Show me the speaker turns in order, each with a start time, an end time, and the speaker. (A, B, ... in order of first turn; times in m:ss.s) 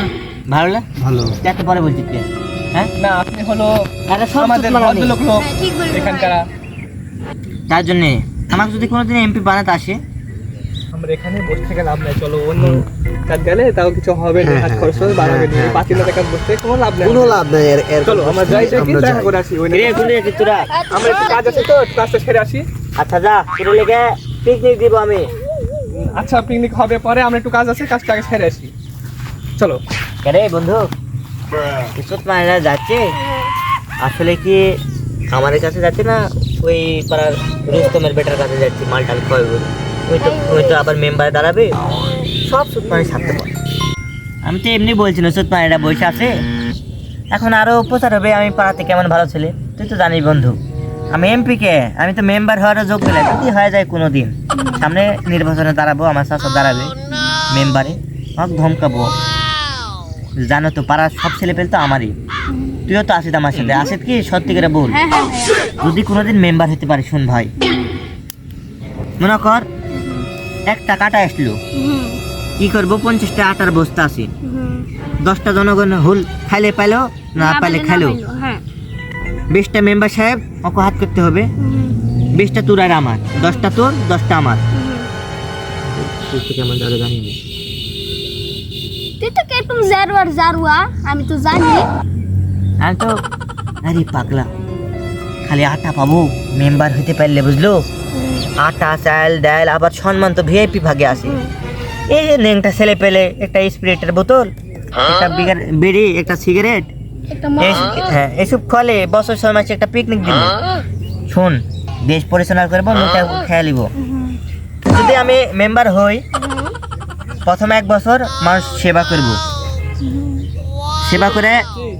0:00.5-0:02.9 A
0:01.0-0:01.4 B
0:03.0-0:06.5 C
0:04.1-0:05.2 A
0:05.3-0:06.4 D
0:07.7-0:10.0 A
0:10.9-0:17.4 C
0:14.4-0:16.1 B
0:17.0-0:19.4 B
0:18.0-0:20.1 C
0:19.7-0:20.7 A
0:20.7-0:21.7 D
0:20.9-0:22.7 C
0:23.0-0:25.3 A
0:25.9-0:28.7 C
0:29.6-0:29.8 C
0:30.2-0:30.8 A
0:31.9-0:33.1 A
0:34.0-0:34.8 A
0:35.3-0:41.8 A
0:40.2-0:40.8 D
0:42.4-0:43.5 A
0:44.4-0:46.4 A
0:47.3-0:50.6 A
0:51.1-0:56.9 A
0:54.5-0:54.8 D
0:57.5-0:59.1 A
1:00.4-1:02.1 A
1:02.9-1:05.0 A
1:04.7-1:05.6 D
1:05.8-1:07.5 A
1:07.6-1:08.0 D
1:09.2-1:09.6 A
1:10.0-1:10.3 D
1:10.7-1:11.6 A
1:11.7-1:12.2 D
1:12.6-1:14.3 A
1:14.4-1:14.9 D
1:15.2-1:18.2 A
1:17.4-1:18.6 D
1:19.5-1:21.5 A
1:21.6-1:22.0 D
1:22.3-1:24.6 A
1:23.4-1:23.7 D
1:24.7-1:25.1 D
1:25.8-1:27.4 A
1:29.2-1:31.8 D
1:32.8-1:33.1 A
1:33.8-1:34.5 A
1:35.4-1:37.8 A
1:38.6-1:41.4 A
1:41.1-1:41.5 D
1:42.1-1:46.9 A
1:47.3-1:48.1 D
1:47.6-1:50.5 A
1:51.3-1:53.9 A
1:54.0-1:54.4 D
1:54.9-1:56.2 A
1:56.4-1:56.7 D
1:57.4-1:59.4 A
2:00.0-2:00.4 D
2:01.0-2:01.6 A